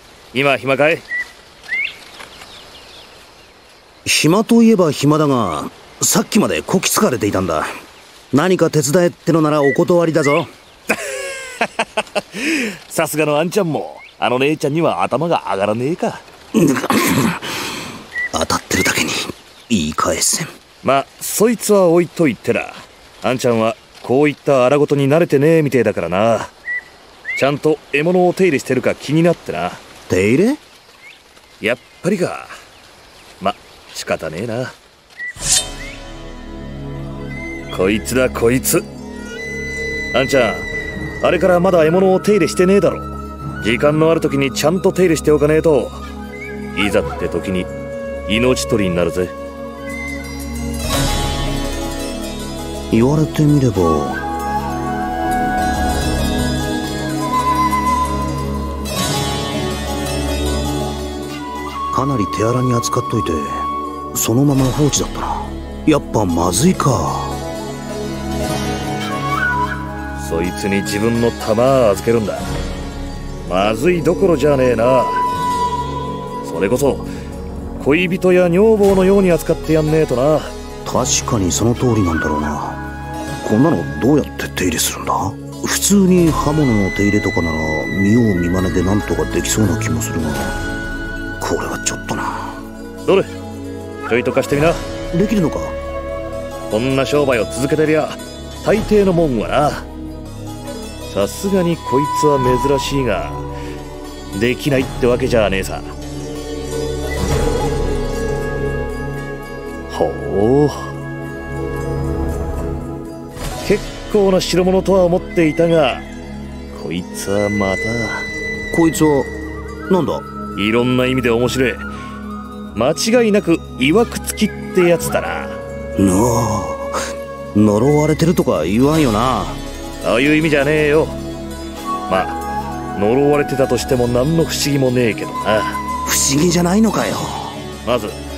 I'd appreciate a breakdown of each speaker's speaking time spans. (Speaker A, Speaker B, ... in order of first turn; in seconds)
Speaker A: 0.3-1.1, 12.2-16.2, 20.8-26.5, 27.4-29.8, 31.6-32.5, 33.4-34.7, 37.7-38.9, 40.1-40.7, 41.2-46.0, 46.8-47.7, 48.3-49.3, 70.2-72.5, 73.5-75.3, 76.4-77.1, 77.8-80.5, 94.1-94.8, 96.7-99.9, 101.1-103.5, 104.3-106.0, 109.9-110.9, 113.6-116.1, 116.7-118.3, 120.6-121.9, 122.8-125.6, 130.0-131.2, 132.1-132.4, 132.9-135.8, 137.8-138.2
Speaker B: 4.0-7.7, 8.3-10.5, 16.6-17.4, 18.3-20.5, 30.1-30.6, 52.9-54.2, 61.9-67.4, 80.8-82.8, 83.4-90.6, 91.4-92.6, 95.1-95.8, 118.7-119.3, 119.9-120.2, 126.0-127.0, 127.5-129.6, 136.1-137.6